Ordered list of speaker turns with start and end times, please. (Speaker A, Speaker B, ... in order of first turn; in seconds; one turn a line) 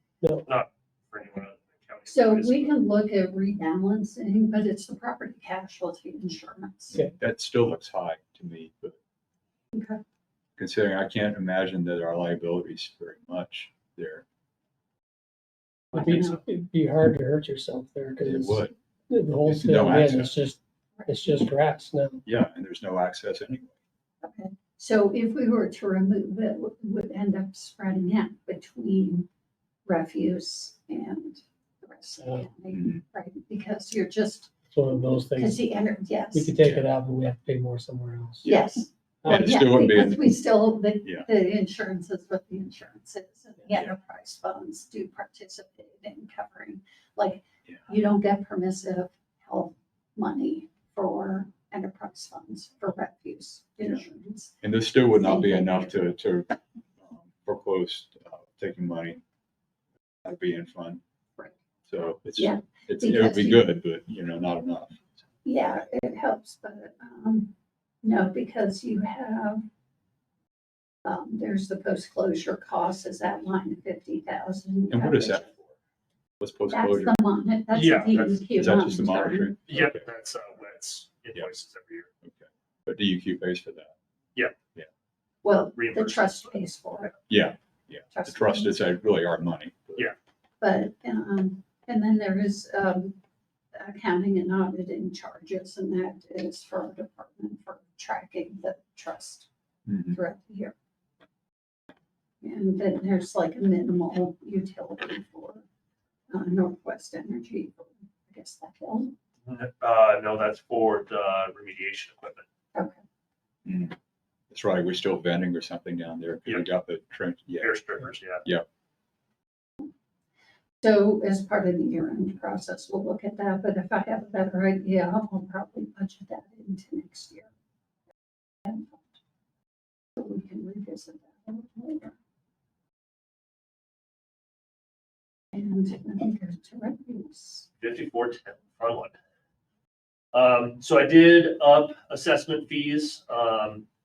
Speaker A: 0.5-2.8
Speaker B: 2.1-7.0
Speaker C: 6.9-9.0
Speaker B: 9.7-10.0
Speaker C: 10.6-14.2
Speaker B: 15.9-16.4
Speaker D: 15.9-22.2
Speaker A: 16.0-16.4
Speaker C: 18.2-18.7
Speaker C: 19.4-20.3
Speaker B: 21.0-21.4
Speaker C: 22.3-23.7
Speaker B: 24.2-29.3
Speaker B: 29.9-34.5
Speaker D: 32.2-32.5
Speaker C: 32.7-33.0
Speaker D: 34.7-35.6
Speaker B: 35.2-36.6
Speaker D: 36.3-38.5
Speaker C: 36.6-36.9
Speaker B: 38.4-56.0
Speaker D: 39.2-39.6
Speaker C: 39.3-40.4
Speaker C: 41.0-41.3
Speaker C: 54.6-59.2
Speaker C: 60.2-61.0
Speaker C: 61.9-65.0
Speaker B: 62.4-63.6
Speaker B: 65.4-69.7
Speaker B: 71.0-75.5
Speaker C: 74.9-75.8
Speaker C: 76.4-77.2
Speaker B: 76.7-79.6
Speaker A: 77.7-78.5
Speaker C: 78.6-80.0
Speaker A: 79.7-82.1
Speaker C: 82.2-83.9
Speaker B: 85.4-87.2
Speaker A: 85.7-86.4
Speaker C: 87.3-90.1
Speaker B: 88.1-88.8
Speaker B: 90.6-93.2
Speaker B: 93.7-99.5
Speaker C: 99.9-100.2
Speaker B: 100.1-100.7
Speaker B: 102.4-105.6
Speaker B: 106.3-109.1
Speaker A: 109.5-112.4
Speaker B: 112.8-113.0
Speaker C: 113.7-114.0
Speaker C: 114.5-117.7
Speaker A: 117.6-118.4
Speaker B: 120.8-127.5
Speaker B: 128.7-129.1
Speaker B: 130.2-132.2
Speaker B: 135.5-137.7
Speaker A: 137.8-139.1
Speaker A: 140.3-143.8